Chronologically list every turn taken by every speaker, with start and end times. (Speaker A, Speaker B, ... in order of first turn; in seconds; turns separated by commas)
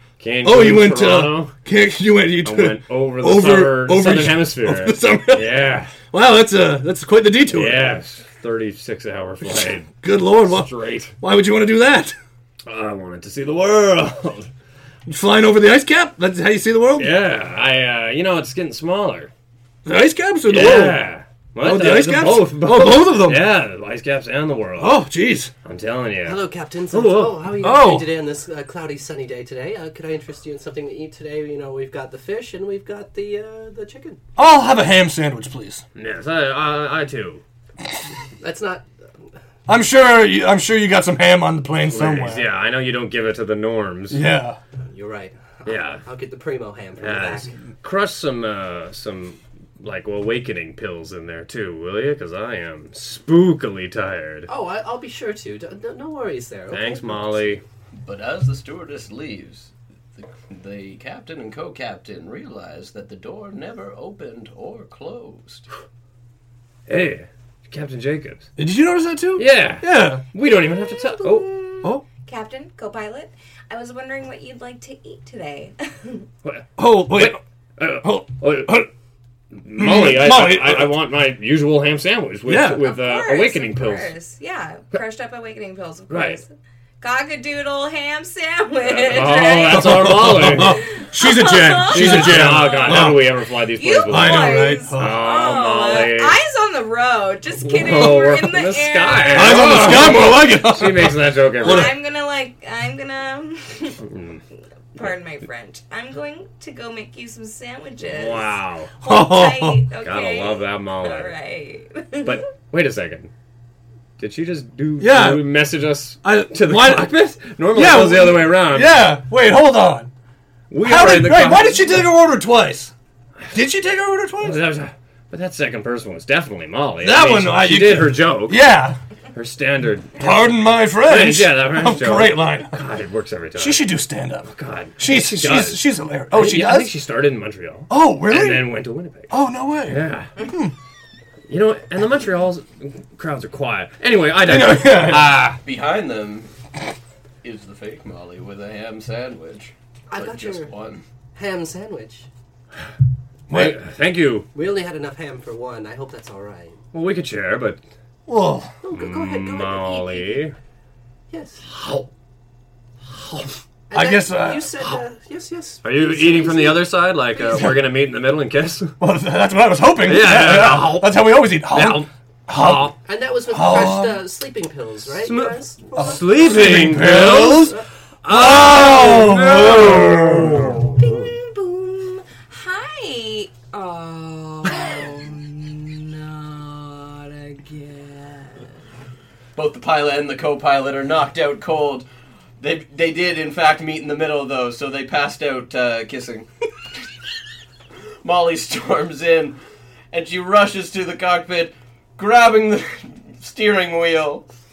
Speaker A: 0.2-1.6, Speaker B: 0.4-8.0, Speaker A: 2.4-6.0, Speaker A: 7.5-11.1, Speaker B: 9.5-12.2, Speaker A: 12.7-14.5, Speaker B: 15.1-17.2, Speaker A: 17.0-19.3, Speaker B: 19.9-21.0, Speaker A: 20.5-25.1, Speaker B: 21.6-23.5, Speaker B: 24.8-25.5, Speaker A: 25.6-27.5, Speaker C: 26.2-34.2, Speaker B: 27.6-28.1, Speaker B: 34.4-35.8, Speaker A: 36.0-37.4, Speaker C: 38.4-38.9, Speaker B: 39.7-42.5, Speaker A: 41.9-44.2, Speaker B: 44.1-44.6, Speaker C: 44.9-47.5, Speaker A: 45.6-46.0, Speaker A: 47.0-54.5, Speaker C: 54.5-57.4, Speaker A: 56.7-57.6, Speaker D: 58.0-65.7, Speaker A: 66.9-68.5, Speaker B: 68.6-70.2, Speaker A: 69.4-71.5, Speaker E: 70.4-76.2, Speaker A: 76.5-78.9, Speaker B: 76.8-77.4, Speaker B: 78.0-78.9, Speaker A: 79.5-84.1, Speaker B: 79.8-81.0, Speaker B: 82.5-82.8, Speaker E: 82.8-86.5, Speaker A: 86.1-86.4, Speaker E: 87.0-93.2, Speaker A: 88.8-90.9, Speaker B: 89.7-93.3, Speaker A: 91.9-96.4, Speaker E: 93.8-100.6, Speaker B: 94.0-95.2, Speaker A: 97.6-102.0, Speaker B: 99.3-102.0, Speaker E: 101.6-104.0, Speaker A: 104.1-104.4, Speaker E: 105.0-112.4, Speaker A: 108.0-108.9, Speaker B: 109.0-109.8, Speaker A: 110.0-111.3, Speaker A: 112.2-113.3, Speaker A: 114.2-119.1, Speaker B: 115.0-115.5, Speaker B: 116.2-117.1, Speaker B: 117.7-120.1, Speaker A: 120.7-122.1, Speaker B: 120.8-122.9, Speaker B: 123.5-124.6, Speaker A: 124.4-128.7, Speaker B: 127.0-129.0, Speaker A: 129.3-133.9, Speaker B: 130.2-132.8, Speaker B: 133.6-136.9, Speaker A: 134.5-139.3, Speaker B: 137.9-138.7, Speaker B: 139.3-140.7, Speaker A: 139.9-140.3, Speaker A: 141.5-145.6, Speaker B: 144.4-145.4, Speaker D: 145.6-146.5, Speaker D: 147.4-151.0, Speaker C: 150.1-150.7, Speaker C: 151.3-152.3, Speaker B: 153.5-153.8, Speaker A: 153.5-154.5, Speaker C: 154.5-156.8, Speaker A: 156.9-157.8, Speaker B: 158.3-158.7, Speaker C: 158.8-160.5, Speaker A: 158.9-160.6, Speaker C: 161.3-161.6, Speaker A: 161.7-162.1, Speaker A: 163.1-163.6, Speaker C: 163.9-167.6, Speaker B: 163.9-165.0, Speaker A: 165.8-169.0, Speaker B: 169.0-172.9, Speaker A: 170.0-173.0, Speaker C: 173.1-176.8, Speaker B: 173.5-174.2, Speaker A: 175.2-181.3, Speaker B: 175.9-181.0, Speaker E: 181.0-188.7, Speaker D: 189.6-192.1, Speaker D: 192.6-196.5, Speaker D: 198.2-199.6, Speaker D: 200.1-204.4